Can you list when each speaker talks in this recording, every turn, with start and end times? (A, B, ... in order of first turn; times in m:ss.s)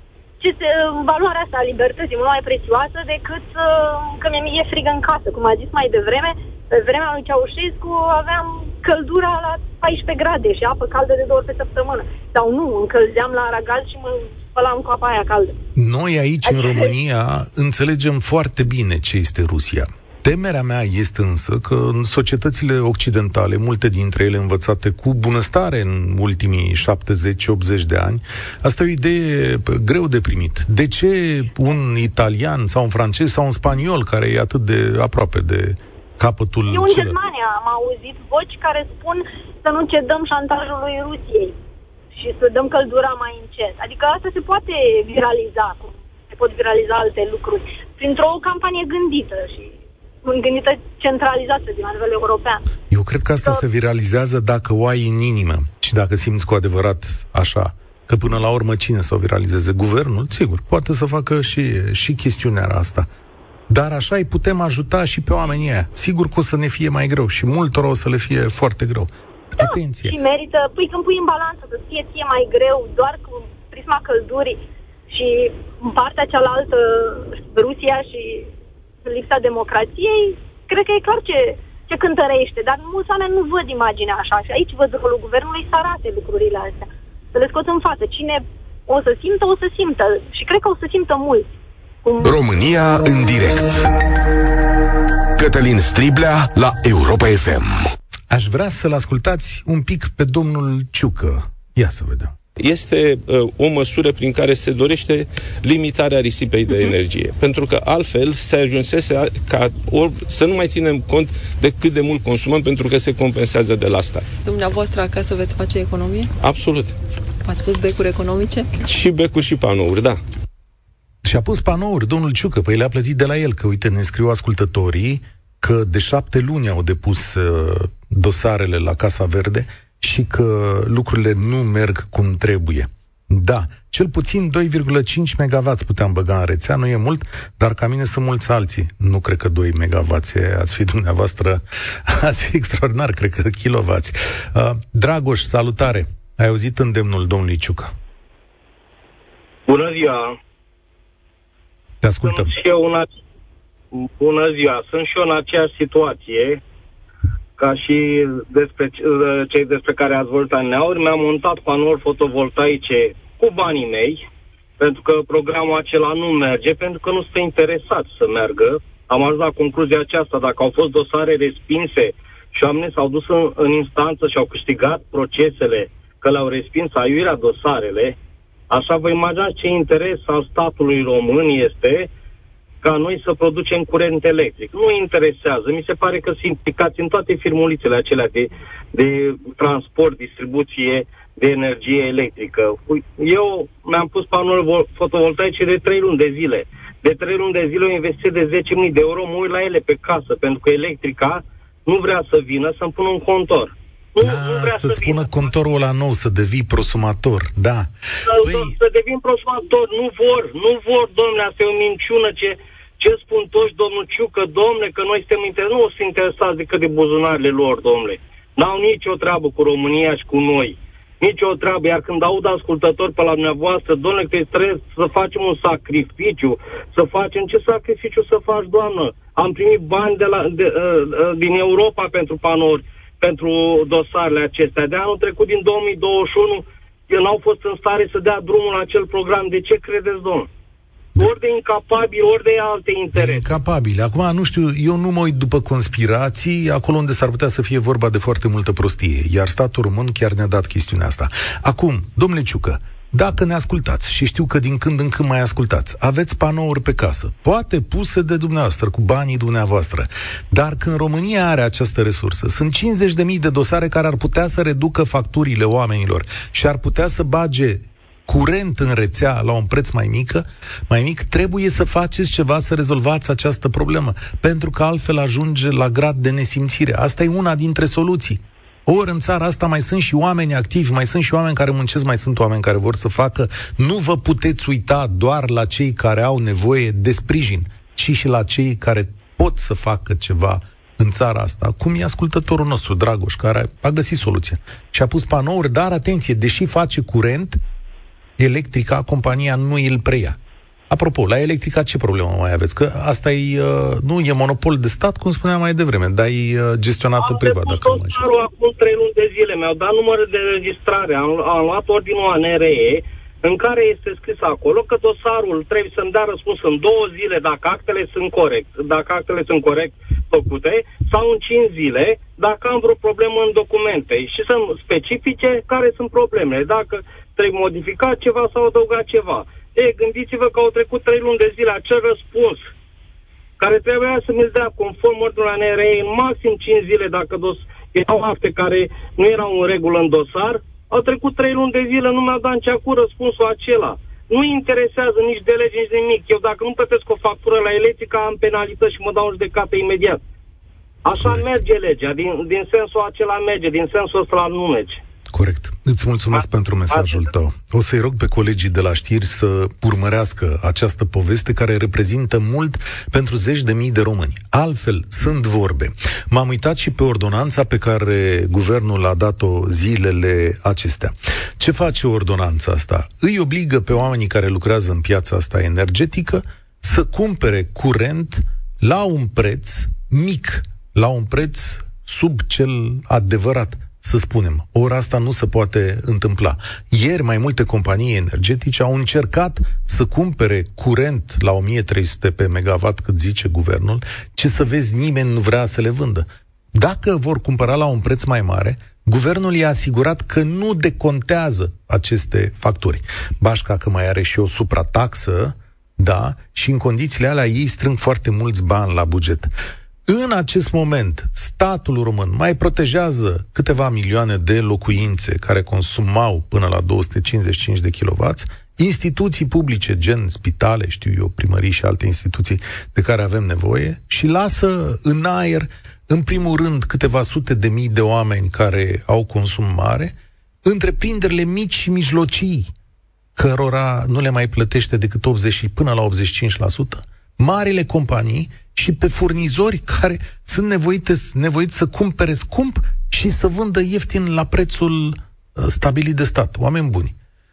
0:00.4-0:15.6 A
0:15.8-0:37.2 B
0:16.4-0:16.9 A
0:36.7-0:41.5 A
0:42.1-0:52.6 A
0:52.9-1:03.1 B
1:03.7-1:10.2 B
1:09.6-1:18.5 A
1:19.0-1:31.5 A
1:32.0-1:32.3 A
1:32.2-1:33.9 C
1:35.4-1:37.8 C
1:38.3-1:42.3 B
1:42.6-1:54.3 D
1:54.4-1:56.3 E
1:56.4-1:57.0 D
1:57.4-1:58.7 E
1:58.8-2:00.2 D
2:01.2-2:27.9 B
2:29.7-2:30.4 F
2:32.0-2:32.5 B
2:32.2-2:33.1 F
2:33.9-2:36.6 F
2:37.6-2:44.2 F
2:44.8-2:58.2 F
2:58.7-3:02.1 F
3:02.8-3:25.5 F
3:24.2-3:28.7 B
3:28.2-4:00.5 F
4:01.2-4:03.6 F
4:03.1-4:57.6 B
4:58.4-5:00.4 B
5:00.9-5:08.2 B
5:07.2-5:32.7 F
5:33.6-5:50.2 F
5:51.0-5:55.0 F
5:51.2-5:51.6 B
5:55.3-6:49.5 B
5:56.3-5:57.3 F
6:50.1-7:10.1 B
7:10.6-7:12.7 B
7:13.4-7:27.1 B